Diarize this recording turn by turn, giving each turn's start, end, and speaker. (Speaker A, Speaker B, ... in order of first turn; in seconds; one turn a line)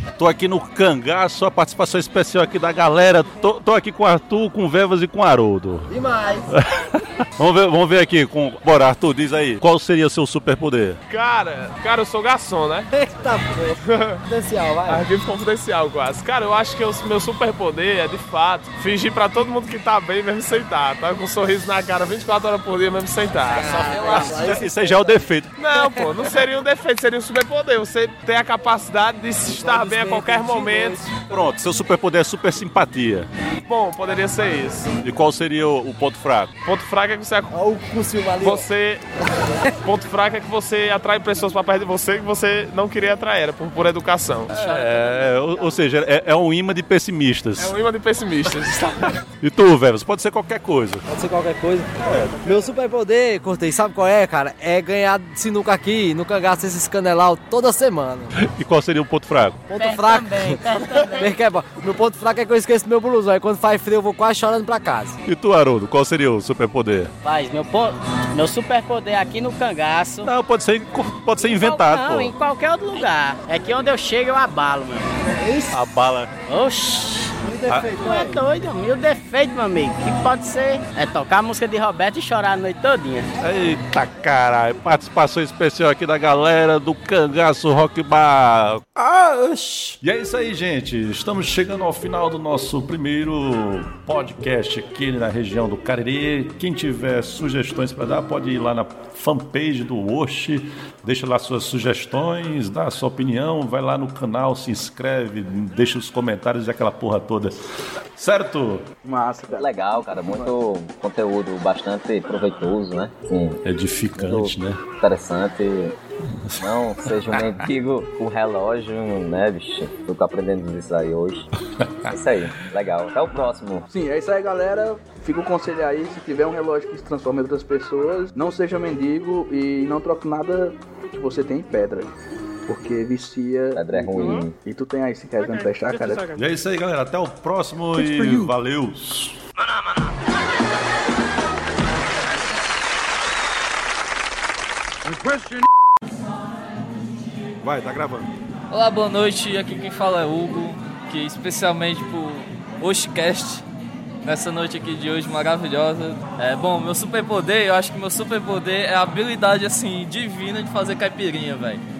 Speaker A: 0.2-6.0
Speaker B: 5.9-6.5
Speaker A: 6.5-11.0
Speaker C: 11.1-12.9
Speaker B: 12.9-13.7
Speaker C: 13.8-14.2
Speaker B: 14.3-15.0
Speaker C: 14.9-24.5
Speaker B: 23.5-25.2
Speaker A: 24.4-25.6
Speaker C: 25.6-31.1
Speaker B: 25.8-26.1
Speaker B: 29.5-31.2
Speaker A: 31.2-33.3
Speaker C: 33.6-34.9
Speaker A: 35.0-36.5
Speaker C: 36.6-37.5
Speaker B: 37.5-38.6
Speaker C: 38.4-39.1
Speaker C: 39.8-44.5
Speaker A: 44.5-47.8
Speaker D: 44.6-44.9
Speaker C: 47.6-49.1
Speaker A: 49.3-51.1
Speaker B: 51.1-58.3
Speaker A: 58.4-59.7
Speaker B: 59.7-65.2
Speaker D: 59.8-61.3
Speaker A: 65.2-67.1
Speaker D: 67.2-70.3
Speaker A: 70.2-72.3
Speaker D: 71.4-75.7
Speaker A: 75.7-76.3
Speaker D: 76.5-83.3
Speaker B: 77.4-78.3
Speaker A: 77.7-78.1
Speaker A: 83.4-107.5
Speaker A: 108.2-108.9
Speaker E: 109.0-110.5
Speaker F: 109.5-113.6
Speaker A: 113.6-114.8
Speaker F: 114.2-116.0
Speaker F: 116.6-121.5
Speaker A: 117.3-117.6
Speaker F: 122.0-123.8
Speaker E: 123.9-132.1
Speaker E: 132.7-136.3
Speaker F: 133.7-134.6
Speaker A: 136.3-139.4
Speaker A: 147.6-148.3
Speaker G: 148.7-153.6
Speaker G: 154.2-161.8